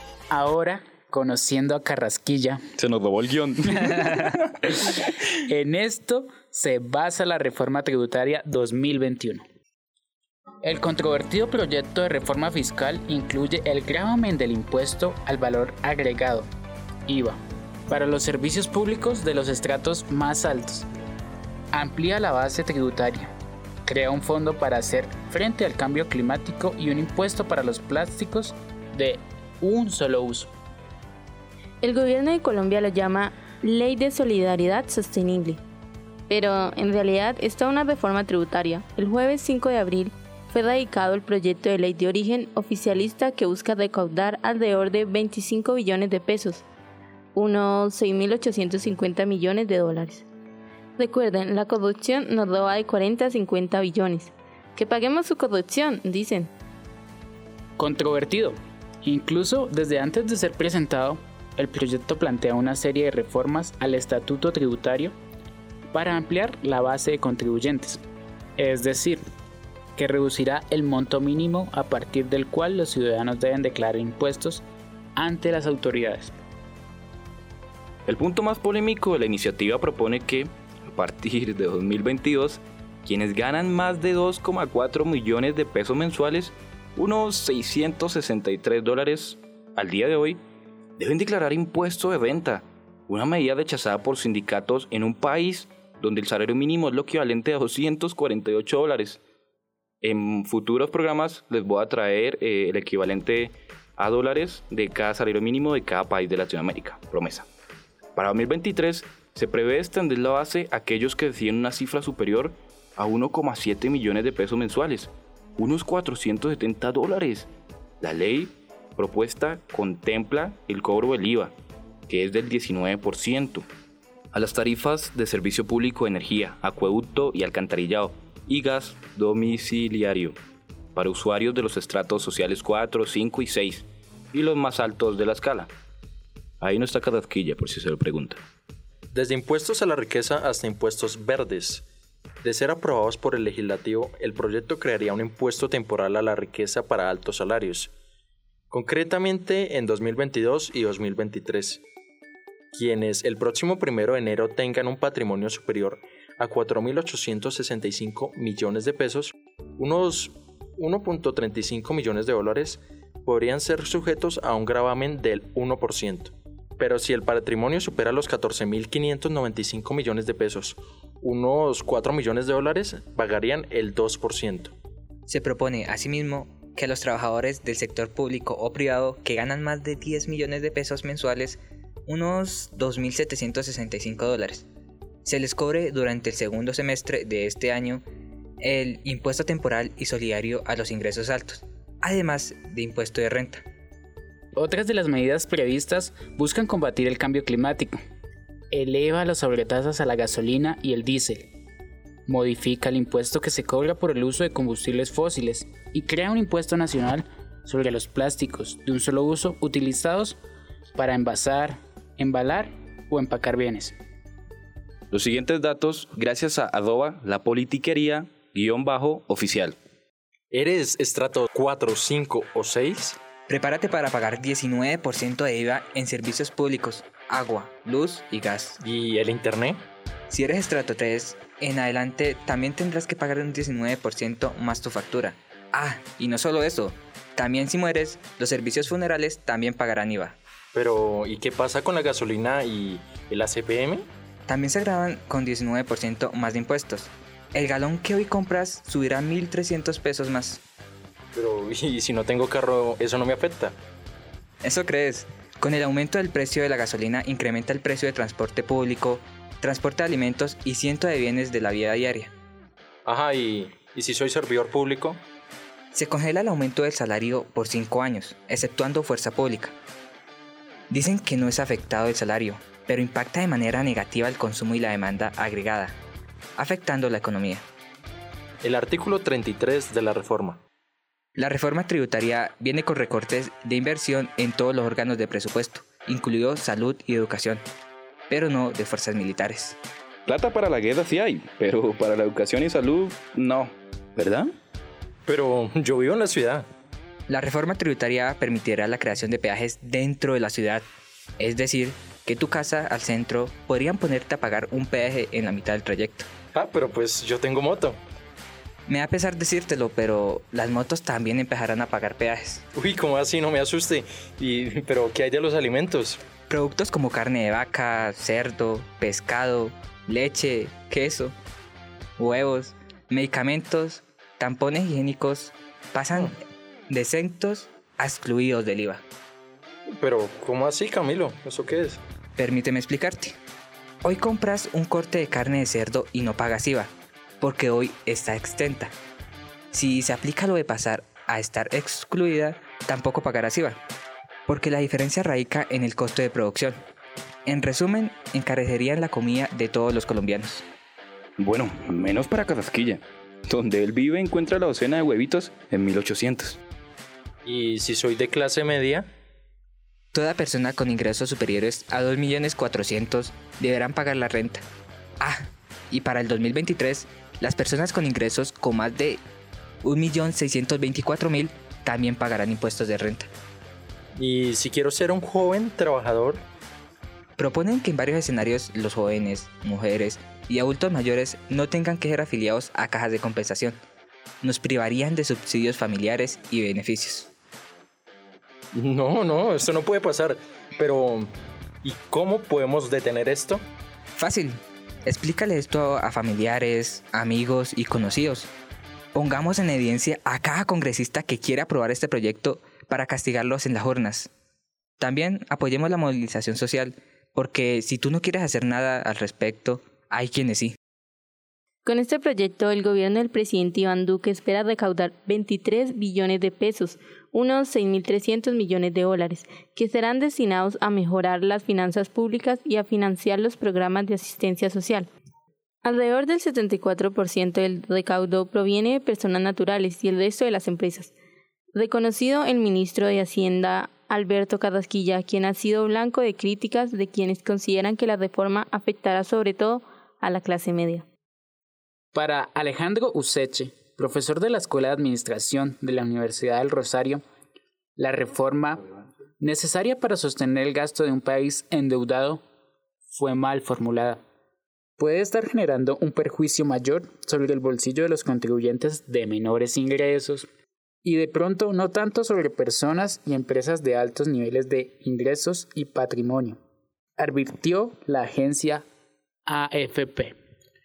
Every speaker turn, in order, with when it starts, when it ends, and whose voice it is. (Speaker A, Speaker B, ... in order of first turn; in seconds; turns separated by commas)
Speaker A: 0.3-2.6, Speaker B: 2.8-5.1, Speaker A: 5.4-9.4, Speaker A: 10.6-16.5, Speaker A: 17.1-20.9, Speaker A: 21.7-23.3, Speaker A: 23.9-30.5, Speaker C: 31.8-35.6, Speaker C: 36.3-46.6, Speaker C: 47.3-50.2, Speaker C: 51.0-56.5, Speaker A: 57.8-65.1, Speaker A: 65.9-68.0, Speaker A: 68.6-69.2, Speaker A: 70.0-74.6, Speaker A: 75.2-76.4, Speaker B: 78.1-90.4, Speaker B: 91.0-99.2, Speaker B: 100.0-107.5, Speaker B: 108.2-117.5, Speaker B: 118.0-121.5, Speaker B: 122.1-123.7, Speaker B: 124.3-130.3, Speaker B: 130.9-135.7, Speaker B: 136.6-138.4, Speaker D: 139.1-141.8, Speaker D: 142.4-147.9, Speaker D: 148.7-151.8, Speaker D: 152.7-174.7, Speaker E: 175.3-184.7, Speaker E: 185.2-188.0, Speaker E: 188.6-193.6, Speaker A: 194.5-198.0, Speaker A: 198.7-201.5, Speaker A: 202.3-210.4, Speaker A: 210.9-213.9, Speaker B: 215.1-219.8, Speaker D: 220.5-223.2, Speaker E: 223.5-228.8, Speaker D: 228.8-229.8, Speaker E: 230.3-240.4, Speaker D: 240.7-244.1, Speaker E: 244.5-250.6, Speaker D: 251.3-253.8, Speaker E: 254.6-262.3, Speaker D: 263.1-265.2, Speaker E: 265.9-269.8, Speaker E: 270.9-275.9, Speaker E: 276.6-277.6, Speaker D: 278.6-280.6, Speaker E: 281.4-287.6, Speaker E: 288.3-289.8, Speaker B: 290.2-294.5, Speaker D: 295.3-296.6, Speaker E: 297.3-300.8, Speaker E: 301.4-306.3, Speaker D: 306.5-308.0, Speaker E: 308.9-312.6, Speaker D: 312.8-316.2, Speaker E: 316.5-321.3, Speaker E: 322.2-326.4, Speaker E: 326.9-329.0, Speaker D: 330.0-332.0, Speaker E: 332.4-333.4, Speaker E: 334.0-338.9, Speaker E: 339.7-343.8, Speaker E: 344.5-346.8, Speaker E: 347.4-350.6, Speaker B: 351.4-356.6, Speaker D: 357.4-359.1, Speaker E: 360.1-364.6, Speaker E: 365.2-369.2, Speaker E: 369.8-373.3, Speaker D: 374.1-376.4, Speaker E: 377.4-383.8, Speaker E: 384.4-387.3, Speaker D: 388.7-391.3, Speaker D: 391.8-393.6, Speaker E: 394.1-398.5, Speaker E: 399.1-404.3, Speaker E: 405.0-410.8, Speaker C: 411.8-425.1, Speaker C: 425.8-431.1, Speaker C: 431.7-441.1, Speaker A: 442.1-447.2, Speaker A: 448.0-448.8, Speaker A: 449.4-452.4, Speaker A: 453.1-454.2, Speaker A: 455.0-460.5, Speaker A: 461.0-466.6, Speaker A: 467.2-468.8, Speaker A: 469.4-470.4